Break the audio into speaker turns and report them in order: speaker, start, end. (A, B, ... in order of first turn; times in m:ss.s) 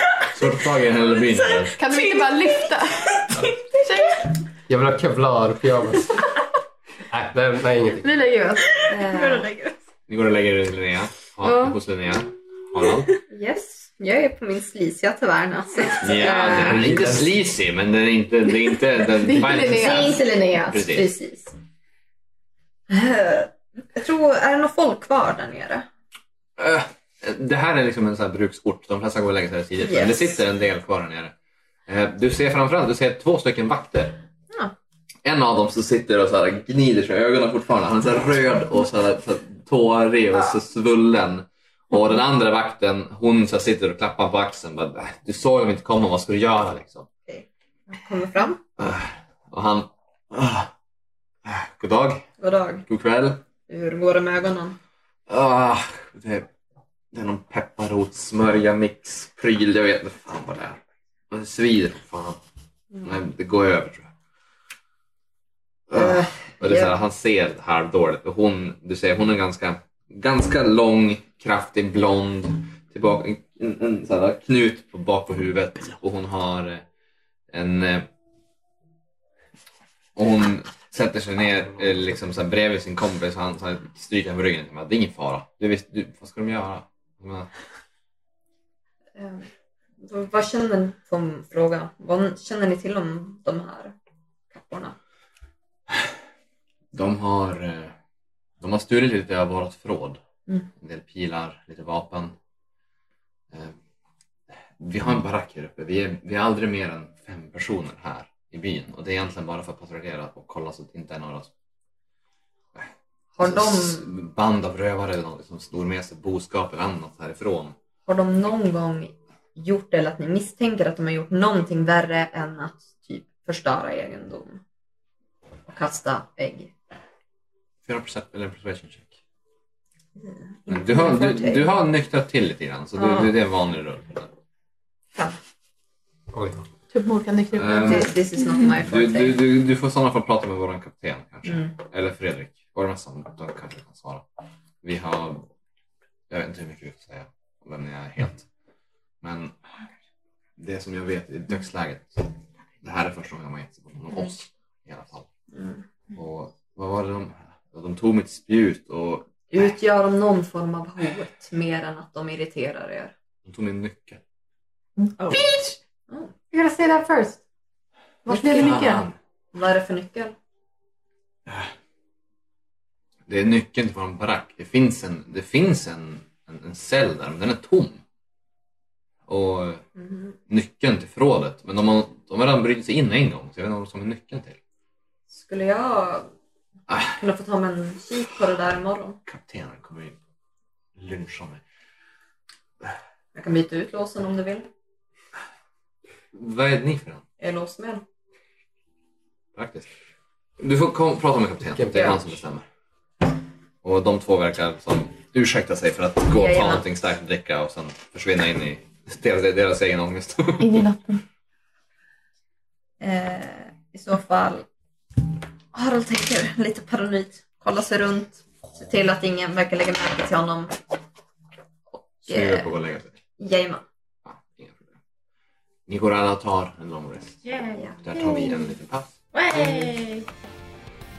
0:00.3-0:01.8 A
0:01.8-0:03.2 B
0:01.9-0:02.2 C
0:03.8-0:04.2 B
0:04.7-0:06.3 D
0:07.1-0:08.1 D
0:08.0-0:08.8 B
0:08.7-0:09.7 C
0:08.9-0:09.5 E
0:10.1-0:13.1 A
0:11.4-0:11.8 B
0:13.3-0:16.8 E
0:16.0-0:21.1 A
0:16.6-0:17.3 D
0:19.0-0:20.2 B
0:19.5-0:21.5 E
0:22.9-0:25.8 E
0:26.6-0:31.3 A
0:29.8-0:30.3 E
0:31.9-0:34.2 A
0:35.2-0:47.1 A
0:47.3-0:48.6 E
0:48.8-0:50.7 A
0:51.4-0:52.2 A
0:52.4-0:52.9 E
0:52.9-0:53.4 A
0:53.7-0:54.8 E
0:55.3-0:56.5 A
0:57.1-1:02.4 A
1:03.0-1:04.1 A
1:05.9-1:16.8 A
1:05.9-1:06.9 E
1:17.5-1:18.1 A
1:20.2-1:27.5 A
1:29.1-1:29.5 E
1:30.0-1:33.9 E
1:34.5-1:35.0 E
1:36.9-1:37.9 A
1:38.6-1:40.2 A
1:40.8-1:42.3 A
1:43.5-1:43.8 A
1:44.8-1:51.5 A
1:53.3-1:54.1 E
1:53.4-1:57.7 A
1:58.0-2:04.6 E
2:05.7-2:06.7 E
2:07.8-2:09.2 A
2:10.2-2:11.7 E
2:10.7-2:14.3 A
2:16.3-2:16.6 D
2:16.9-2:18.2 B
2:17.5-2:18.1 A
2:17.8-2:19.4 E
2:18.8-2:24.2 A
2:24.8-2:25.4 A
2:26.3-2:28.5 A
2:29.2-2:29.6 A
2:30.6-2:32.3 A
2:32.8-2:35.3 A
2:35.5-2:35.8 E
2:36.1-2:39.3 A
2:39.5-2:43.1 E
2:43.4-2:44.2 A
2:45.0-2:45.8 B
2:46.5-2:47.4 B
2:48.2-2:49.0 B
2:48.3-2:48.8 E
2:48.3-2:49.1 A
2:49.5-2:50.4 E
2:53.3-2:58.0 A
2:59.3-2:59.8 A
3:00.0-3:00.3 E
3:00.5-3:04.6 A
3:05.3-3:06.3 E
3:06.9-3:07.2 A
3:07.1-3:09.2 E
3:09.3-3:10.2 A
3:11.0-3:11.6 A
3:13.3-3:14.7 E
3:16.3-3:17.2 A
3:17.4-3:18.0 E
3:19.5-3:19.9 A
3:20.6-3:22.6 A
3:21.7-3:22.2 D
3:23.8-3:30.8 A
3:26.3-3:26.8 E
3:30.6-3:31.2 B
3:33.0-3:34.6 E
3:35.7-3:40.8 E
3:41.9-3:42.7 E
3:42.2-3:43.2 A
3:43.4-3:43.8 E
3:44.2-3:45.0 A
3:45.9-3:47.4 A
3:47.4-3:47.9 C
3:47.7-3:48.7 E
3:48.0-3:49.1 A
3:49.3-3:50.3 C